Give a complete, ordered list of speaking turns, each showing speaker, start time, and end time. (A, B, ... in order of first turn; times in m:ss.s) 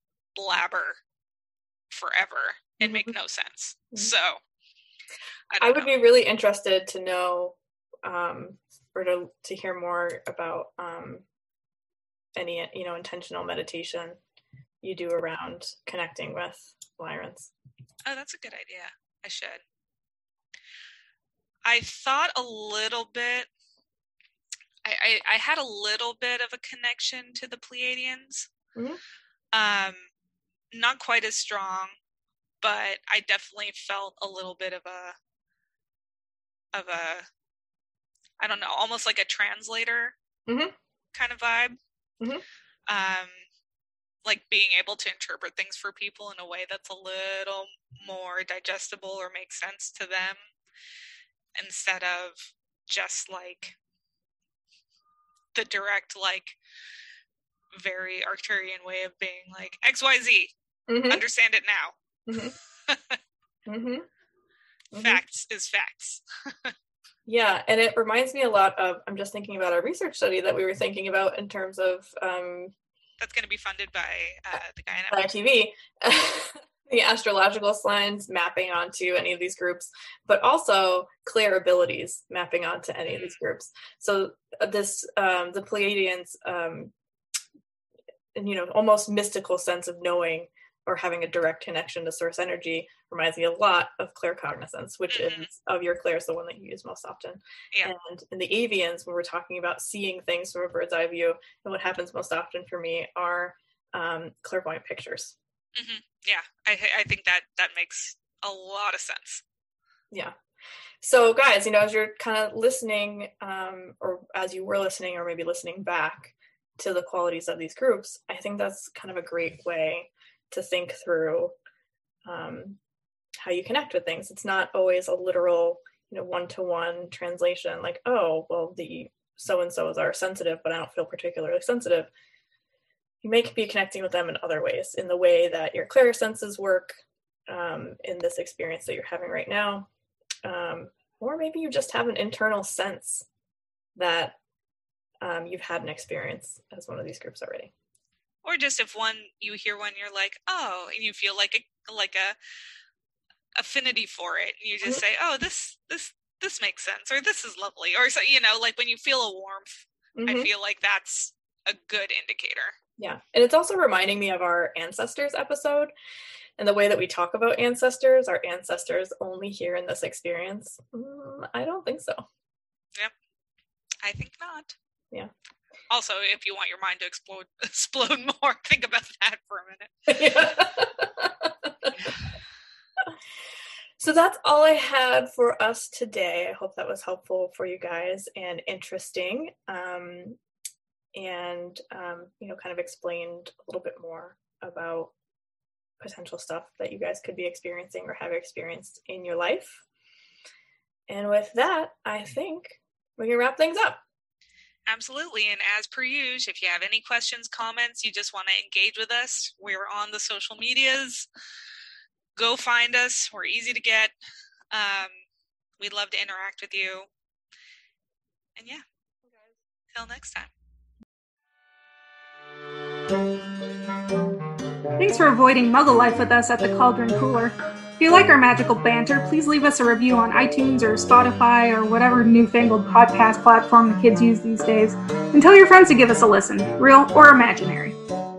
0:00.4-0:01.0 A
0:01.9-0:04.4 A
0:02.8-0:03.1 B
0:05.5-0:05.9 A
0:05.6-0:11.2 B
0:12.4-0:14.2 B
0:14.8-0:17.5 B
0:18.0-0:19.6 A
0:21.6-0:23.5 A
0:24.8-0:28.5 A
0:29.5-0:30.0 A
0:30.7-0:31.9 A
0:32.6-0:35.2 A
0:36.7-0:37.2 A
0:38.4-0:40.1 A
0:40.5-0:40.7 B
0:41.1-0:41.8 A
0:42.9-0:43.4 A
0:44.2-0:50.4 A
0:51.6-0:53.8 A
0:55.5-0:56.6 A
0:57.7-1:00.5 A
1:00.9-1:01.2 B
1:01.1-1:03.2 A
1:02.3-1:02.5 B
1:03.7-1:04.1 B
1:04.9-1:05.2 B
1:05.0-1:06.7 A
1:07.2-1:12.7 B
1:13.2-1:15.2 A
1:15.1-1:26.9 B
1:23.1-1:23.4 A
1:28.3-1:45.4 B
1:35.1-1:35.5 A
1:45.7-1:49.4 A
1:51.0-2:01.5 B
2:02.2-2:02.8 B
2:03.4-2:12.1 B
2:13.2-2:19.9 B
2:20.4-2:23.2 B
2:24.0-2:24.4 B
2:25.2-2:27.7 B
2:28.4-2:32.4 A
2:33.6-2:42.8 A
2:40.2-2:40.5 B
2:43.0-2:45.9 B
2:46.6-2:52.2 B
2:54.0-2:54.7 A
2:55.9-3:00.5 A
3:00.1-3:01.9 B
3:04.0-3:10.4 B
3:11.1-3:15.1 B
3:16.0-3:19.8 B
3:21.1-3:24.0 B
3:24.8-3:31.2 A
3:32.3-3:34.1 A
3:34.7-3:35.1 A
3:35.8-3:37.1 A
3:38.6-3:38.8 A
3:39.9-3:40.5 A
3:45.0-3:57.9 C